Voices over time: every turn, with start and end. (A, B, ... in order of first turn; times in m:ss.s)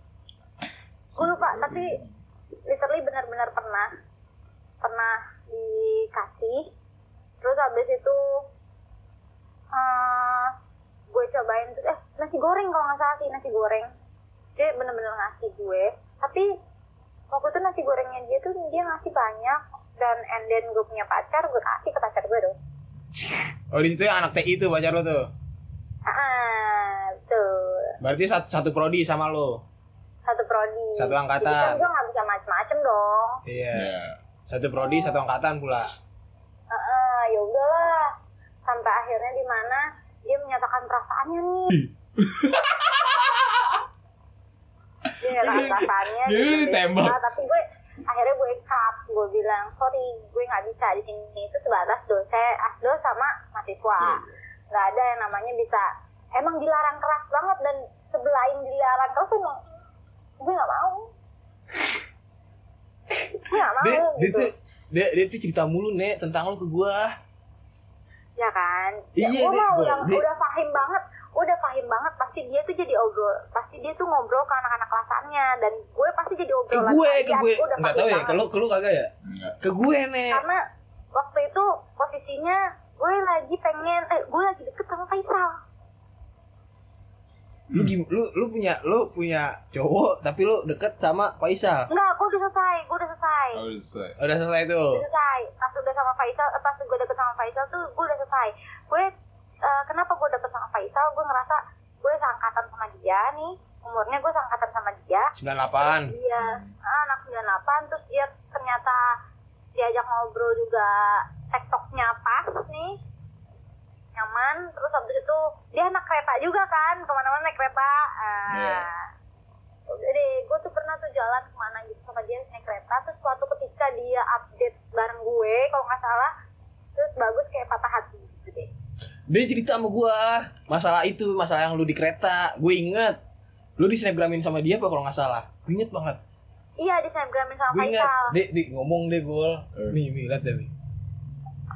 0:01.1-0:02.1 A
0:01.2-0:02.0 B
0:02.7-0:03.9 B
0:04.8-0:06.7 B
0:07.4-0:08.4 B
0:09.7-0:10.5 B
0:11.1-0:13.9 B
0:14.6-0:16.5 B
0:17.3-0:22.6 B
0:23.7-0:25.3 C
0:26.1-0:28.0 B
0:28.0-0:29.6 C
0:30.3-0:33.4 B
0:31.0-0:31.8 C
0:33.5-0:33.9 C
0:33.7-0:34.2 A
0:34.5-0:35.9 C
0:34.8-0:35.2 B
0:36.7-0:38.1 B
0:38.6-0:41.8 B
0:41.7-0:43.8 A
0:45.1-0:47.2 A
0:45.2-0:54.2 B
0:54.0-0:54.3 A
0:54.7-0:59.6 B
1:00.4-1:01.1 B
1:03.5-1:04.5 B
1:03.5-1:07.2 C
1:08.4-1:18.4 B
1:09.2-1:10.2 C
1:16.7-1:19.1 C
1:19.3-1:19.6 A
1:19.6-1:20.4 C
1:20.3-1:20.6 B
1:21.2-1:25.6 B
1:27.7-1:31.9 C
1:31.9-1:33.6 B
1:33.5-1:34.2 A
1:34.2-1:35.0 C
1:34.9-1:39.1 B
1:39.6-1:49.2 B
1:45.4-1:46.1 C
1:46.4-1:46.7 A
1:49.8-1:53.0 B
1:54.2-1:59.1 B
1:58.5-1:58.9 A
1:59.9-2:06.3 B
2:07.0-2:08.7 B
2:09.3-2:13.2 C
2:13.8-2:16.2 C
2:16.8-2:18.3 B
2:17.7-2:20.7 C